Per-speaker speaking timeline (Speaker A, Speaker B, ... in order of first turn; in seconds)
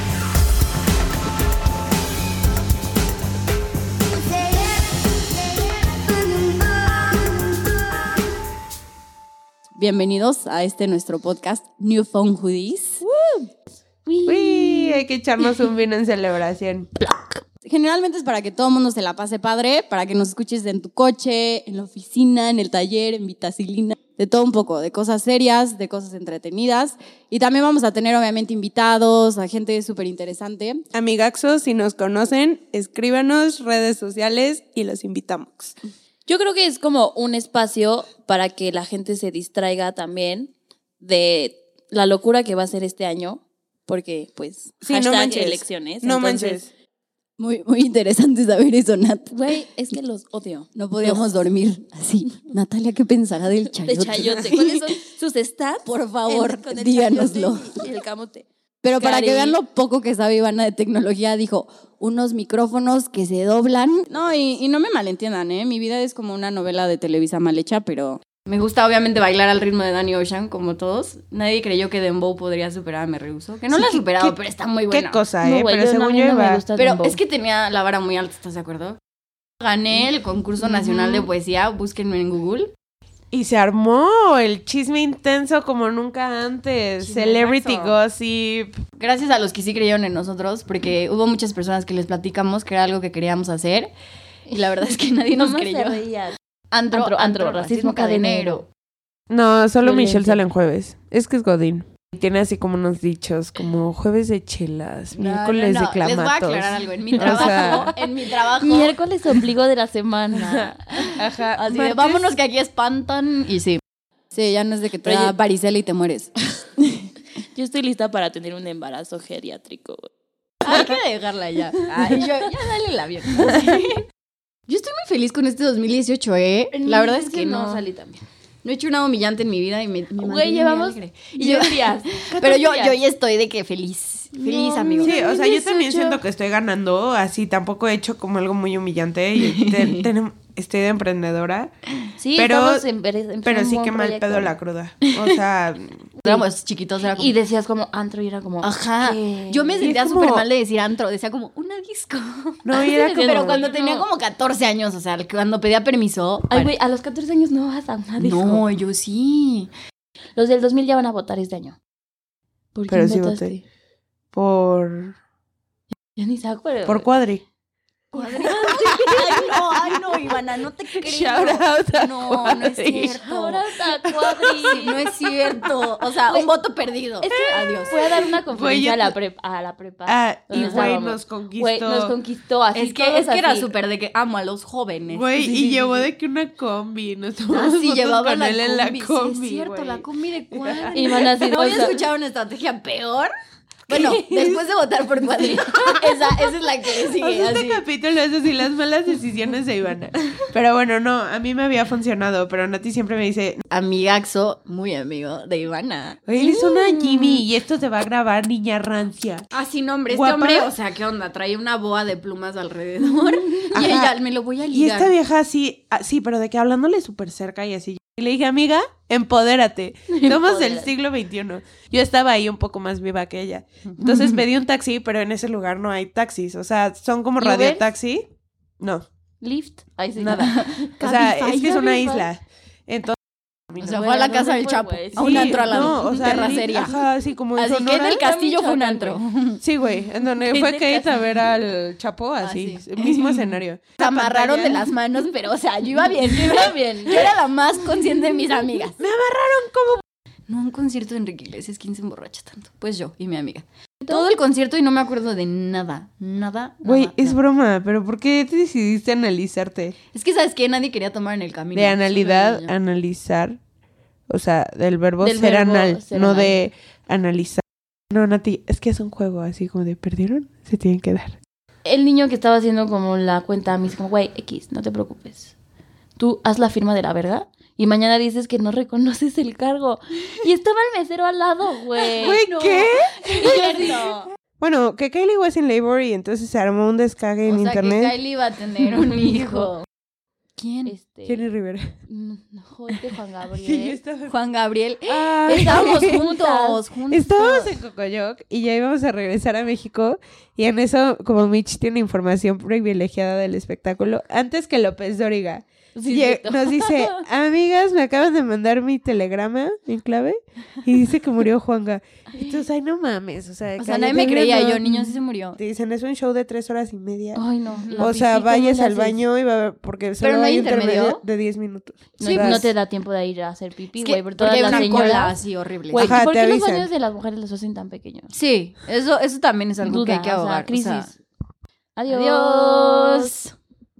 Speaker A: 9.8-13.0, 17.6-30.8, 47.4-49.5, 50.7-55.0, 55.8-57.8, 58.8-75.2, 76.8-79.0, 79.6-82.7, 87.0-88.0, 89.0-93.9, 94.5-96.0, 96.7-98.6, 105.2-109.0, 110.3-113.8, 114.3-117.0, 120.6-124.0, 124.7-127.8, 128.6-135.2, 139.4-140.1, 145.0-145.4, 146.2-147.3, 148.6-156.7, 158.2-159.7, 168.1-173.7, 174.6-178.1, 180.5-181.0, 182.7-186.1, 187.5-193.3, 193.9-197.8, 203.7-207.4, 209.5-215.1, 223.9-224.4, 230.4-231.2, 233.8-237.0, 237.5-239.6, 242.4-248.9, 250.5-257.4, 260.1-262.7, 282.4-284.3, 287.4-289.8, 290.6-290.9, 294.3-297.8, 313.8-315.6, 317.8-318.1, 320.2-321.2, 322.2-322.7, 324.0-326.2, 328.3-331.1, 332.1-333.5
Speaker B: 13.0-13.4, 14.0-15.6, 16.9-17.4, 36.2-46.6, 49.3-51.2, 53.8-59.6, 75.4-77.2, 94.5-96.3, 96.9-98.7, 99.8-100.5, 107.1-108.0, 108.5-111.2, 115.0-115.3, 117.5-120.0, 126.7-128.2, 130.2-133.0, 134.3-136.2, 142.2-144.6, 146.2-146.4, 147.1-150.0, 152.8-154.1, 156.5-158.7, 160.3-161.8, 162.7-163.6, 166.2-167.1, 168.1-168.6, 172.8-175.1, 177.2-183.7, 190.9-192.0, 220.1-220.9, 227.4-227.9, 229.4-232.3, 233.8-237.0, 238.1-239.2, 240.4-241.4, 246.3-247.2, 265.2-266.6, 271.8-275.5, 276.2-282.4, 283.4-284.1, 288.9-289.7, 290.8-291.4, 292.1-294.0, 295.5-296.8, 305.9-307.2, 312.4-312.6, 317.3-319.2, 322.2-325.4, 325.9-328.3, 329.8-331.2, 331.9-333.3
Speaker C: 14.2-16.9, 30.9-35.8, 44.8-46.7, 73.7-74.4, 74.9-76.6, 83.3-88.8, 99.3-107.9, 111.2-112.3, 135.0-141.7, 142.3-142.8, 143.4-146.1, 149.8-150.5, 152.6-153.7, 162.9-163.6, 164.3-165.2, 166.8-167.4, 168.3-170.2, 171.0-173.2, 174.0-175.0, 178.1-179.1, 180.1-182.1, 185.1-191.4, 193.9-194.6, 195.4-196.4, 197.0-203.6, 206.3-209.5, 210.1-210.7, 213.7-214.1, 214.7-228.2, 228.8-229.1, 230.2-233.2, 235.2-238.2, 239.6-244.9, 249.0-250.0, 256.8-259.9, 261.7-263.6, 264.3-271.4, 282.1-288.2, 291.2-291.9, 293.6-294.3, 295.0-296.3, 297.1-315.0, 315.6-317.4, 318.0-322.7, 324.5-325.1, 325.9-326.9